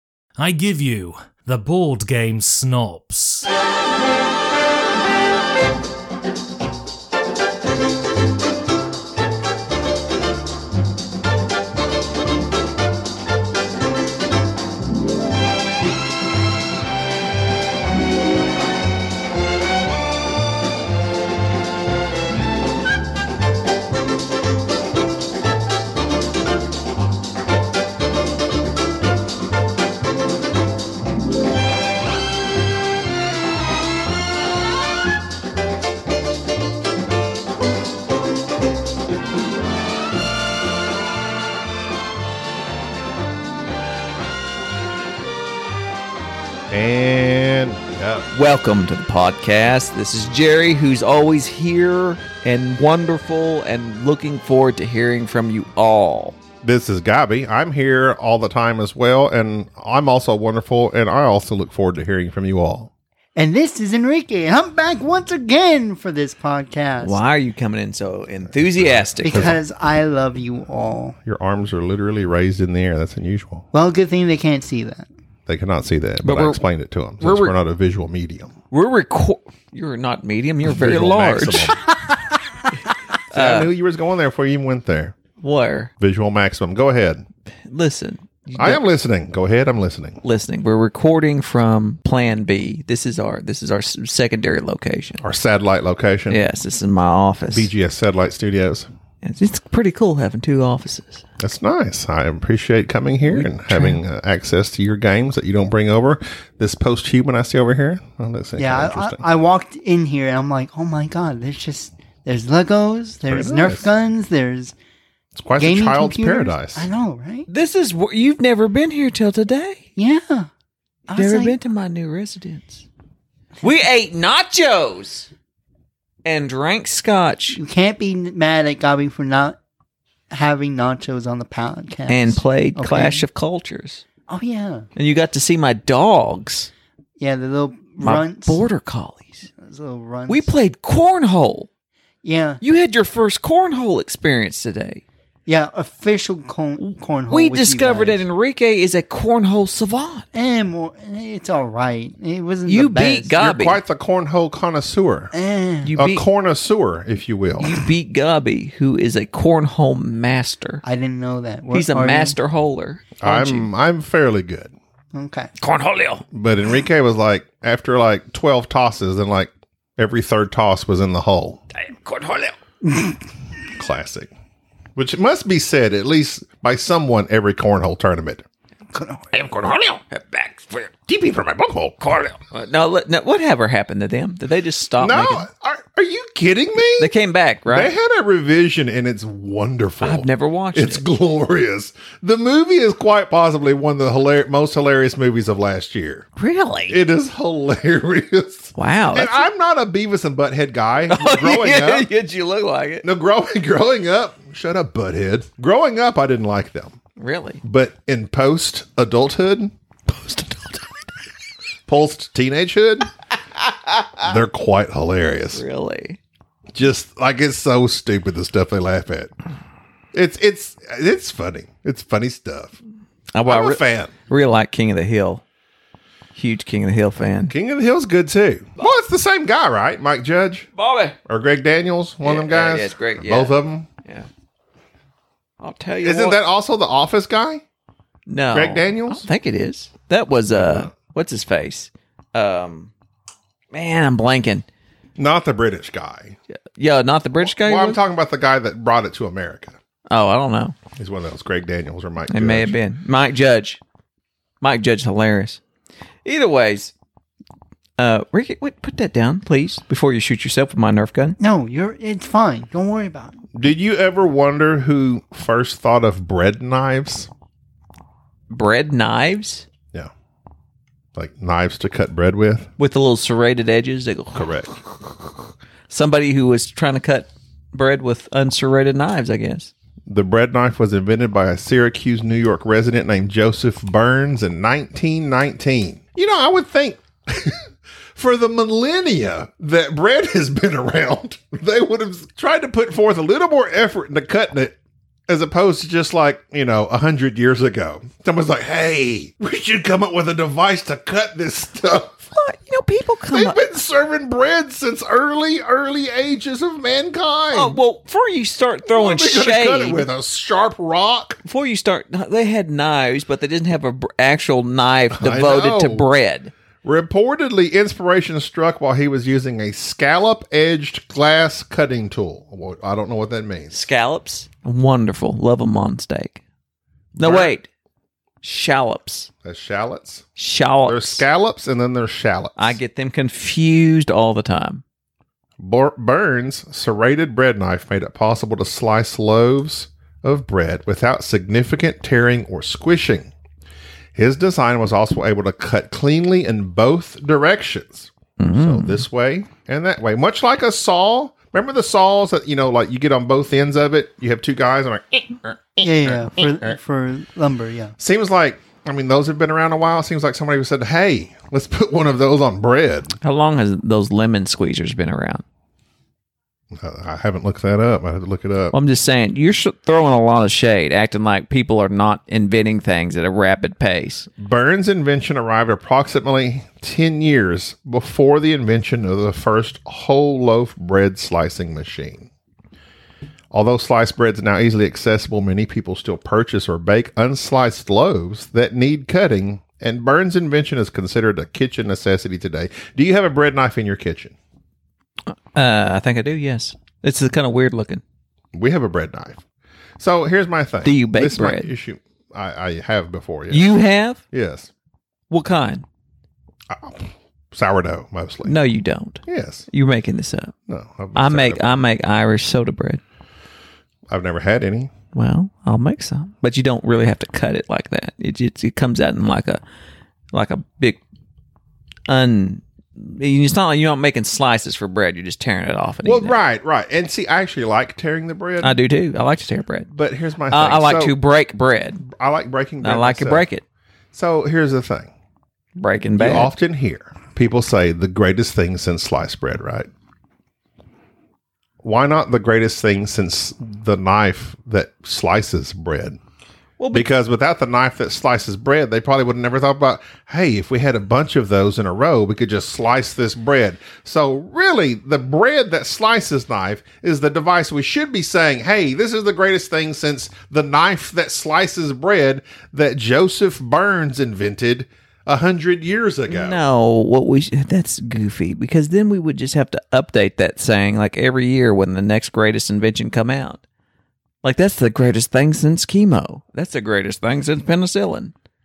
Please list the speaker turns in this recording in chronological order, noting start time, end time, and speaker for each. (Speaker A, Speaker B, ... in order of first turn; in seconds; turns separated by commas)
Speaker A: 0.4-3.5, Speaker B: 46.7-48.3, Speaker C: 48.3-56.4, Speaker B: 56.6-62.9, Speaker D: 63.4-67.2, Speaker C: 67.0-69.6, Speaker B: 68.6-69.6, Speaker D: 69.2-71.2, Speaker B: 71.2-73.7, Speaker D: 73.7-75.1, Speaker B: 75.5-78.5, Speaker C: 76.2-76.6, Speaker C: 77.2-77.5, Speaker C: 78.7-81.8, Speaker B: 80.6-81.8, Speaker C: 83.3-83.7, Speaker B: 83.3-85.2, Speaker C: 85.4-85.9, Speaker B: 86.0-87.2, Speaker C: 87.7-88.8, Speaker B: 88.6-90.2, Speaker C: 90.2-95.2, Speaker B: 95.2-96.4, Speaker C: 96.3-97.7, Speaker B: 97.5-98.9, Speaker C: 99.2-101.2, Speaker B: 101.4-109.2, Speaker C: 103.3-104.0, Speaker D: 108.6-114.7, Speaker B: 113.3-113.9, Speaker B: 115.3-116.9, Speaker D: 115.6-117.5, Speaker C: 117.5-119.8, Speaker D: 120.0-120.5, Speaker D: 121.1-121.5, Speaker C: 121.1-122.8, Speaker C: 123.6-125.3, Speaker C: 126.2-127.6, Speaker D: 127.5-129.6, Speaker D: 130.3-133.2, Speaker C: 132.1-134.0, Speaker D: 134.3-134.9, Speaker C: 134.9-136.7, Speaker D: 137.2-138.6, Speaker C: 138.0-139.5, Speaker D: 139.6-140.5, Speaker C: 140.3-141.7, Speaker D: 142.2-142.6, Speaker C: 142.6-145.0, Speaker D: 145.5-148.2, Speaker C: 146.8-150.2, Speaker D: 150.3-153.3, Speaker C: 152.6-153.8, Speaker B: 153.4-155.3, Speaker D: 155.3-155.9, Speaker C: 155.8-156.2, Speaker B: 155.9-157.8, Speaker C: 157.6-160.8, Speaker D: 160.8-162.4, Speaker C: 161.7-163.7, Speaker B: 163.2-164.7, Speaker D: 165.1-165.5, Speaker C: 165.6-166.2, Speaker B: 166.3-171.6, Speaker C: 171.7-172.5, Speaker B: 173.7-174.3, Speaker B: 174.9-178.4, Speaker D: 178.9-179.3, Speaker B: 179.5-180.0, Speaker C: 180.0-180.9, Speaker B: 181.1-182.0, Speaker C: 182.0-185.4, Speaker B: 185.0-187.1, Speaker C: 187.0-187.9, Speaker B: 187.7-196.3, Speaker C: 190.0-191.0, Speaker C: 196.3-197.0, Speaker B: 196.9-202.1, Speaker C: 198.7-199.4, Speaker C: 201.1-203.1, Speaker B: 203.0-207.0, Speaker C: 207.2-207.6, Speaker B: 207.6-210.7, Speaker B: 211.9-213.1, Speaker C: 213.6-214.3, Speaker B: 214.2-215.6, Speaker C: 215.5-216.2, Speaker B: 216.7-219.3, Speaker B: 220.1-222.8, Speaker C: 223.3-225.4, Speaker B: 223.4-224.1, Speaker C: 226.3-227.5, Speaker B: 227.5-230.7, Speaker C: 230.8-231.2, Speaker B: 231.3-233.9, Speaker C: 232.2-234.3, Speaker C: 235.6-236.4, Speaker B: 236.0-237.6, Speaker C: 238.3-242.9, Speaker B: 238.5-239.3, Speaker B: 240.5-240.9, Speaker C: 243.7-244.6, Speaker B: 245.2-246.4, Speaker C: 246.8-248.0, Speaker B: 247.4-249.8, Speaker C: 250.1-250.8, Speaker B: 250.9-252.8, Speaker C: 252.3-253.8, Speaker C: 254.6-255.6, Speaker C: 256.2-256.9, Speaker C: 258.0-261.4, Speaker D: 261.4-263.4, Speaker B: 263.5-267.3, Speaker C: 268.5-269.7, Speaker B: 271.1-272.7, Speaker C: 272.8-274.5, Speaker B: 274.3-274.8, Speaker C: 275.9-279.7, Speaker B: 280.1-294.8, Speaker B: 295.3-302.3, Speaker C: 302.3-303.6, Speaker B: 303.3-307.8, Speaker C: 307.5-310.1, Speaker B: 308.9-311.4, Speaker C: 311.4-316.5, Speaker B: 315.1-316.1, Speaker B: 316.8-323.8, Speaker C: 323.7-326.4, Speaker B: 327.1-327.5, Speaker C: 327.2-327.7, Speaker C: 328.4-329.3, Speaker B: 329.4-330.2, Speaker C: 330.4-331.2, Speaker B: 330.9-332.8, Speaker C: 332.6-334.8, Speaker B: 335.6-343.3, Speaker B: 344.1-356.8, Speaker C: 348.4-349.0, Speaker D: 355.8-357.9, Speaker B: 358.0-363.1, Speaker C: 363.2-365.4, Speaker B: 366.7-368.7, Speaker C: 368.7-374.3, Speaker B: 374.4-382.3, Speaker B: 383.5-394.3, Speaker C: 395.3-398.0, Speaker B: 398.5-399.4, Speaker B: 400.0-403.7, Speaker C: 400.8-401.7, Speaker C: 403.5-404.2, Speaker B: 404.3-404.7, Speaker C: 405.3-405.8, Speaker B: 406.7-408.6, Speaker C: 408.4-410.5, Speaker B: 409.2-409.7, Speaker B: 410.7-411.8, Speaker C: 411.1-413.0, Speaker B: 414.1-414.9, Speaker C: 415.1-419.6, Speaker C: 420.3-421.0, Speaker C: 422.1-426.4, Speaker B: 426.0-428.8, Speaker C: 428.6-429.9, Speaker B: 429.9-431.1, Speaker C: 430.5-432.0, Speaker B: 432.0-433.4, Speaker C: 432.8-433.6, Speaker B: 434.1-435.1, Speaker C: 435.8-436.5, Speaker B: 436.2-439.9, Speaker B: 441.8-446.2, Speaker C: 446.8-447.1, Speaker B: 446.9-466.6, Speaker C: 466.3-473.6, Speaker C: 474.4-478.3